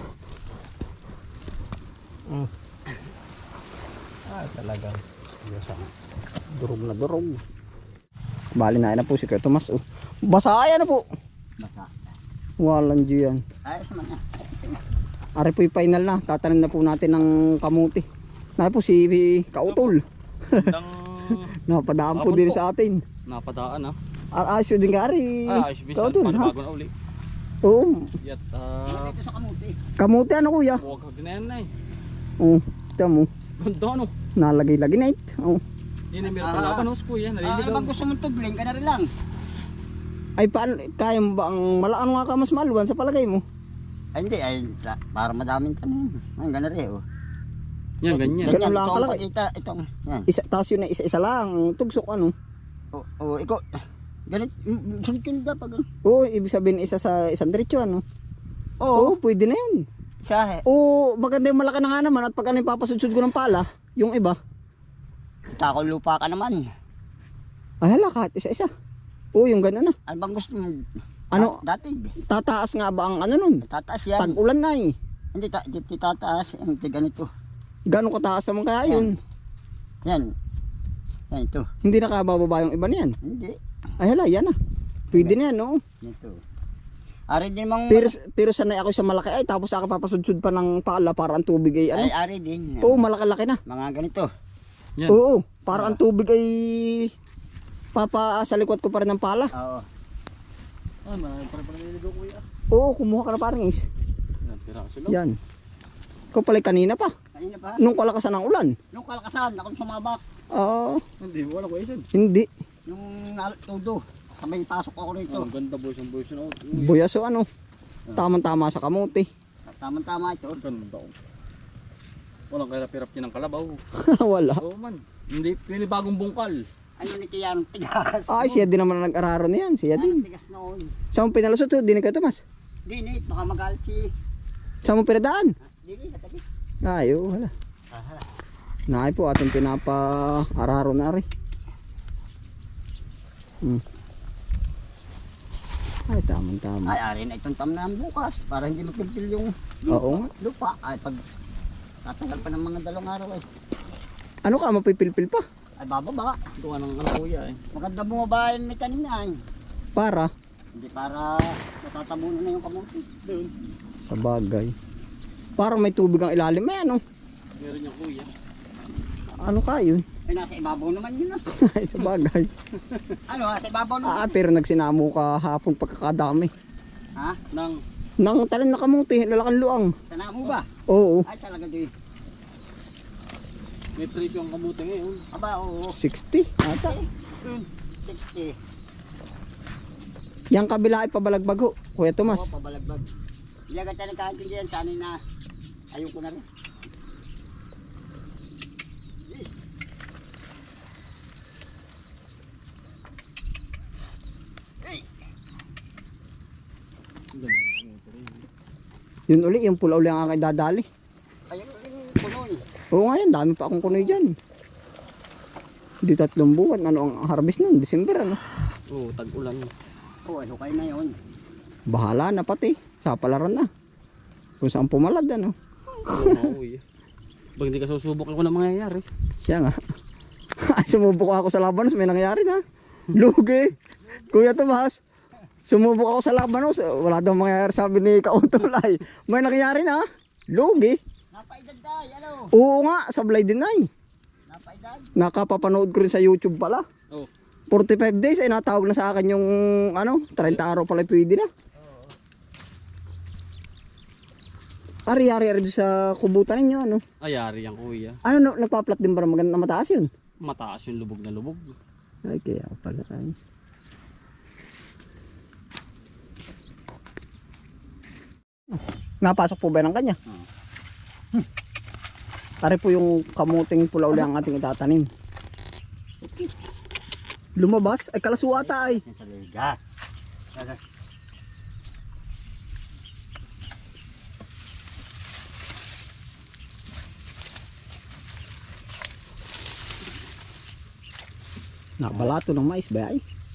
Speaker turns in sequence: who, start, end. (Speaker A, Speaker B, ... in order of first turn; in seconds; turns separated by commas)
Speaker A: 4.3-5.0, Speaker B: 5.4-5.9, Speaker A: 6.6-7.4, Speaker A: 8.6-11.0, Speaker B: 11.6-12.1, Speaker A: 12.6-13.4, Speaker B: 13.7-14.8, Speaker A: 15.4-18.0, Speaker A: 18.6-20.7, Speaker C: 19.6-19.9, Speaker C: 20.5-21.5, Speaker A: 21.4-23.0, Speaker C: 22.1-22.6, Speaker C: 23.3-23.9, Speaker A: 24.3-26.5, Speaker C: 25.5-26.9, Speaker A: 27.6-28.1, Speaker C: 28.2-29.1, Speaker B: 28.8-29.8, Speaker A: 30.0-30.8, Speaker C: 30.8-31.7, Speaker A: 32.4-33.3, Speaker C: 33.6-34.1, Speaker A: 34.4-35.6, Speaker C: 36.1-37.9, Speaker B: 36.3-36.9, Speaker B: 37.4-39.0, Speaker A: 40.4-43.4, Speaker B: 44.1-47.0, Speaker C: 48.0-48.6, Speaker B: 48.1-50.3, Speaker A: 48.4-49.2, Speaker A: 50.3-52.3, Speaker B: 52.9-53.6, Speaker B: 54.3-55.8, Speaker A: 56.0-58.0, Speaker B: 58.8-59.1, Speaker A: 59.0-59.8, Speaker B: 60.2-60.6, Speaker A: 60.7-64.4, Speaker B: 65.6-66.6, Speaker A: 67.8-68.7, Speaker A: 69.3-69.9, Speaker B: 70.1-70.7, Speaker B: 71.3-72.1, Speaker A: 72.3-73.6, Speaker B: 73.6-74.4, Speaker A: 74.2-74.9, Speaker B: 75.3-77.3, Speaker A: 77.9-79.2, Speaker B: 78.8-79.2, Speaker B: 81.3-81.6, Speaker A: 81.8-83.1, Speaker B: 83.2-83.6, Speaker A: 84.0-84.5, Speaker B: 85.1-85.4, Speaker A: 85.1-85.8, Speaker B: 86.0-86.3, Speaker B: 87.3-88.2, Speaker A: 87.9-92.1, Speaker B: 91.9-93.1, Speaker A: 92.8-93.6, Speaker B: 93.7-94.3, Speaker A: 95.1-97.1, Speaker B: 95.7-96.0, Speaker A: 97.9-99.5, Speaker B: 99.5-99.8, Speaker C: 101.0-102.4, Speaker A: 102.7-103.8, Speaker C: 104.4-105.2, Speaker A: 105.1-105.4, Speaker A: 106.3-107.1, Speaker B: 107.3-107.8, Speaker A: 107.8-108.7, Speaker B: 108.9-110.2, Speaker A: 110.5-111.0, Speaker C: 111.2-112.0, Speaker A: 112.1-112.5, Speaker B: 112.9-115.5, Speaker C: 115.3-117.0, Speaker A: 116.7-117.5, Speaker A: 118.2-119.2, Speaker B: 119.7-120.6, Speaker C: 120.6-121.1, Speaker C: 122.5-123.8, Speaker A: 123.9-124.6, Speaker C: 124.6-126.6, Speaker B: 127.0-128.7, Speaker A: 128.3-130.2, Speaker B: 129.9-130.9, Speaker A: 131.1-132.4, Speaker B: 132.9-134.0, Speaker A: 134.8-135.5, Speaker B: 135.7-136.4, Speaker A: 136.8-137.5, Speaker B: 137.9-138.2, Speaker A: 138.9-141.2, Speaker A: 146.1-147.0, Speaker B: 146.9-151.2, Speaker A: 149.9-150.3, Speaker B: 152.0-153.4, Speaker A: 154.4-155.4, Speaker B: 155.8-156.4, Speaker C: 156.6-157.6, Speaker B: 157.7-159.3, Speaker A: 159.9-160.3, Speaker B: 160.8-163.1, Speaker C: 163.2-163.5, Speaker A: 164.0-164.7, Speaker A: 165.6-167.0, Speaker C: 167.6-168.3, Speaker A: 169.4-170.0, Speaker B: 170.2-171.4, Speaker A: 171.5-172.5, Speaker C: 172.8-173.2, Speaker B: 173.3-174.3, Speaker A: 174.0-176.5, Speaker C: 177.5-177.8, Speaker A: 178.2-179.9, Speaker B: 180.1-180.7, Speaker A: 180.9-181.2, Speaker B: 181.2-181.9, Speaker C: 183.9-185.2, Speaker B: 185.3-185.9, Speaker A: 185.9-186.9, Speaker B: 186.8-188.5, Speaker A: 190.5-192.5, Speaker B: 192.2-193.2, Speaker B: 193.7-195.2, Speaker B: 195.9-196.4, Speaker B: 199.2-199.5, Speaker C: 207.3-208.5, Speaker A: 209.3-210.8, Speaker B: 211.5-212.6, Speaker A: 212.9-214.3, Speaker A: 216.0-218.4, Speaker C: 218.9-219.7, Speaker B: 220.2-221.2, Speaker A: 221.9-223.7, Speaker A: 224.6-225.5, Speaker C: 226.1-226.8, Speaker A: 226.1-226.5, Speaker C: 227.6-229.1, Speaker A: 229.4-229.8, Speaker A: 230.6-233.7, Speaker B: 234.0-234.6, Speaker A: 234.3-235.0, Speaker A: 235.7-241.0, Speaker B: 241.3-242.5, Speaker A: 242.5-243.9, Speaker B: 244.5-245.1, Speaker A: 245.2-246.8, Speaker A: 247.7-251.5, Speaker B: 251.8-252.2, Speaker A: 255.1-257.0, Speaker C: 257.2-258.2, Speaker A: 258.2-260.1, Speaker C: 260.4-261.7, Speaker A: 262.2-263.3, Speaker A: 268.7-270.2, Speaker A: 272.6-275.1, Speaker A: 277.6-279.0, Speaker B: 278.5-279.8, Speaker B: 280.5-280.8, Speaker A: 292.0-293.2